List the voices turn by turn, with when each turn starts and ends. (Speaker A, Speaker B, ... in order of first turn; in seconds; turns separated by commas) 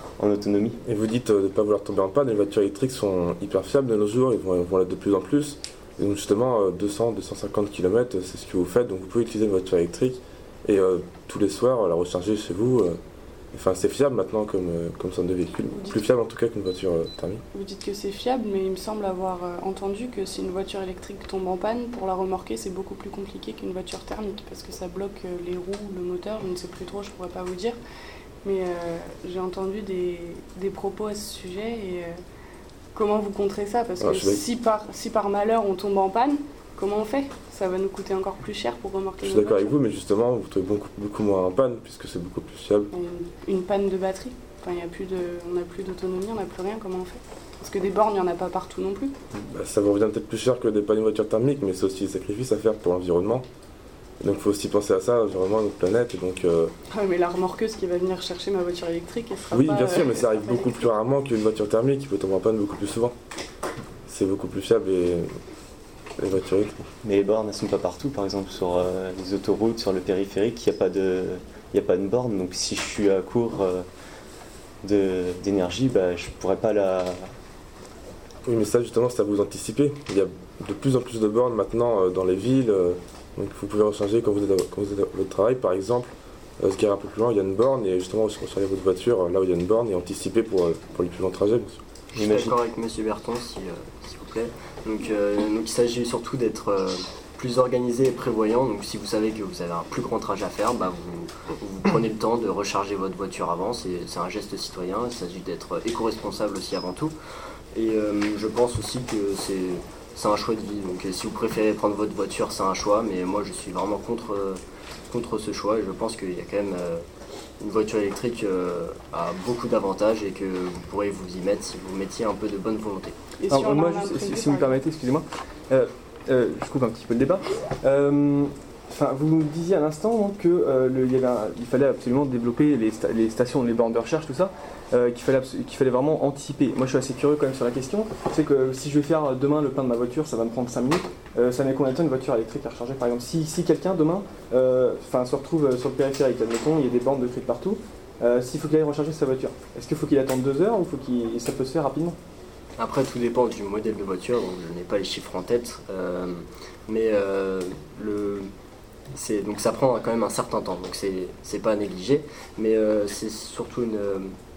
Speaker A: 0.2-0.8, Speaker B: 0.8-13.0, Speaker B: 13.5-17.4, Speaker C: 15.7-16.0, Speaker C: 17.5-27.8, Speaker C: 28.4-32.2, Speaker C: 32.9-39.7, Speaker B: 34.0-34.4, Speaker B: 39.2-42.9, Speaker C: 42.9-49.1, Speaker B: 49.3-53.4, Speaker B: 54.2-56.7, Speaker C: 56.9-61.0, Speaker B: 59.5-63.1, Speaker B: 64.1-65.3, Speaker B: 66.2-66.9, Speaker A: 67.0-73.8, Speaker A: 74.8-77.3, Speaker B: 78.4-91.8, Speaker D: 92.1-107.1, Speaker A: 92.1-92.5, Speaker D: 107.7-117.0, Speaker D: 117.6-123.2, Speaker C: 123.4-124.8, Speaker E: 123.5-152.2, Speaker D: 152.8-158.5, Speaker D: 159.1-164.3